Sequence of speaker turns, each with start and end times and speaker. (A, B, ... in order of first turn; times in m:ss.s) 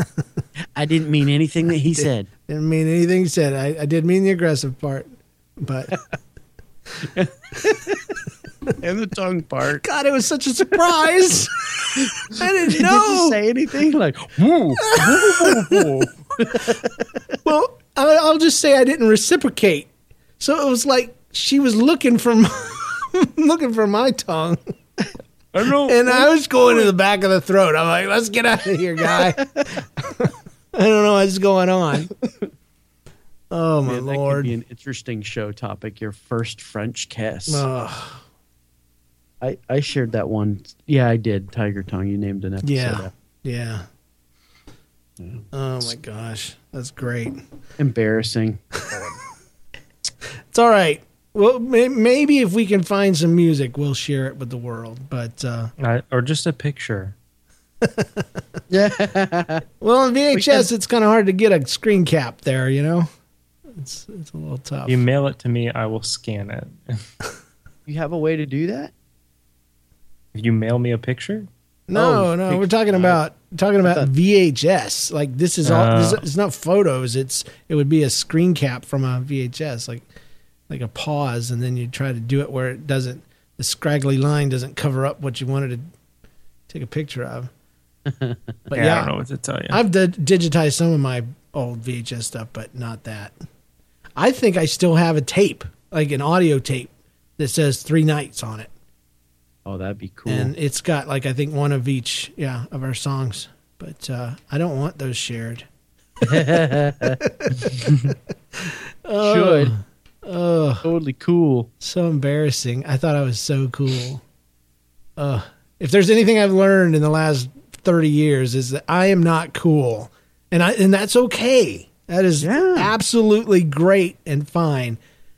0:00.8-0:02.3 A
0:01.9-0:06.0 B
0:07.2-0:07.9 A
0:08.8-0:09.8 A
0:09.8-0:13.4 B
0:12.4-0:16.9 A
0:14.8-0:15.8 B
0:17.4-0:24.6 B
0:25.5-0:26.0 C
0:25.8-0:32.1 B
0:33.5-0:34.5 B
0:33.8-0:37.7 A
0:37.5-0:38.2 B
0:39.4-0:43.1 A
0:42.6-0:43.8 B
0:45.2-0:45.4 A
0:45.5-0:47.4 B
0:47.8-0:48.6 A
0:50.5-0:55.7 B
0:55.8-0:57.1 C
0:57.8-0:58.2 B
0:58.7-0:59.6 A
0:59.8-1:03.1 B
1:00.3-1:00.7 A
1:03.8-1:05.0 B
1:04.8-1:07.1 C
1:07.8-1:08.9 A
1:10.3-1:11.5 C
1:11.9-1:20.1 B
1:11.9-1:13.2 A
1:13.8-1:14.1 A
1:15.6-1:16.2 C
1:20.7-1:25.8 B
1:26.7-1:27.5 B
1:28.1-1:28.4 A
1:28.7-1:29.1 B
1:28.7-1:29.8 C
1:29.7-1:33.3 B
1:34.2-1:38.7 B
1:39.6-1:40.5 A
1:40.3-1:45.6 B
1:46.2-1:46.6 B
1:46.2-1:47.2 A
1:47.2-1:48.1 B
1:48.7-1:50.8 B
1:49.2-1:49.7 A
1:50.8-1:51.7 A
1:51.8-1:54.2 B
1:55.2-2:05.0 B
2:02.4-2:02.9 A